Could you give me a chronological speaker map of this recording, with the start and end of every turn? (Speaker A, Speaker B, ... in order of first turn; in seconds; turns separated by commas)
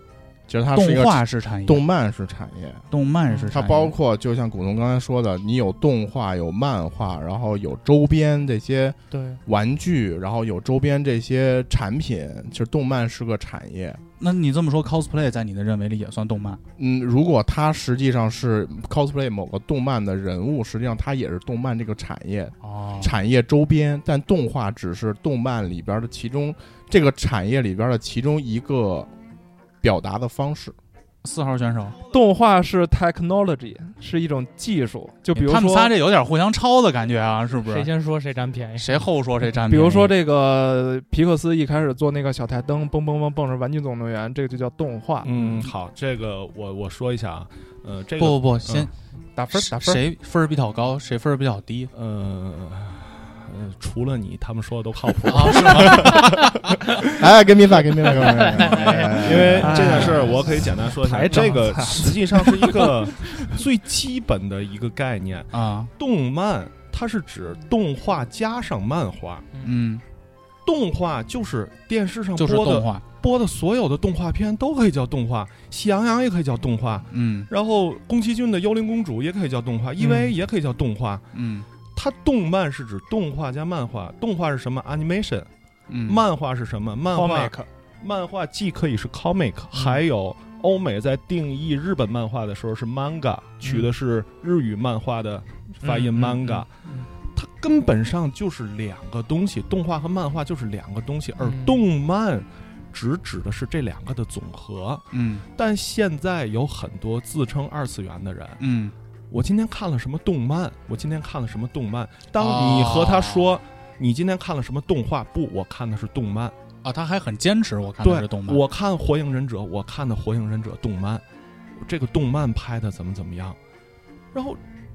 Speaker A: 0.5-2.9, Speaker B: 0.7-1.8, Speaker B: 2.9-3.9, Speaker A: 3.5-14.0, Speaker C: 9.1-9.4, Speaker B: 14.2-16.6, Speaker A: 16.8-29.1, Speaker B: 22.6-23.1, Speaker A: 29.8-30.8, Speaker B: 31.2-32.0, Speaker D: 32.1-35.9, Speaker B: 35.3-37.9, Speaker C: 37.6-39.1, Speaker B: 38.8-40.1, Speaker D: 39.6-45.5, Speaker E: 45.2-48.9, Speaker B: 48.2-48.9, Speaker D: 49.3-50.0, Speaker B: 49.5-51.9, Speaker E: 51.9-57.1, Speaker B: 55.3-56.2, Speaker A: 57.2-60.0, Speaker C: 58.2-59.2, Speaker E: 59.2-69.5, Speaker D: 59.6-63.1, Speaker B: 65.5-65.9, Speaker B: 69.6-70.0, Speaker E: 70.6-81.3, Speaker B: 72.4-73.0, Speaker B: 77.1-77.5, Speaker B: 80.0-80.3, Speaker B: 81.3-81.7, Speaker E: 81.9-85.5, Speaker B: 85.9-86.2, Speaker E: 86.0-108.6, Speaker D: 87.1-87.7, Speaker D: 95.8-96.6, Speaker C: 101.4-101.8, Speaker B: 105.1-105.5, Speaker B: 108.6-108.9, Speaker E: 109.3-116.5, Speaker B: 112.3-113.5, Speaker B: 116.8-118.6, Speaker E: 118.0-121.2, Speaker E: 121.8-123.6, Speaker E: 124.3-124.6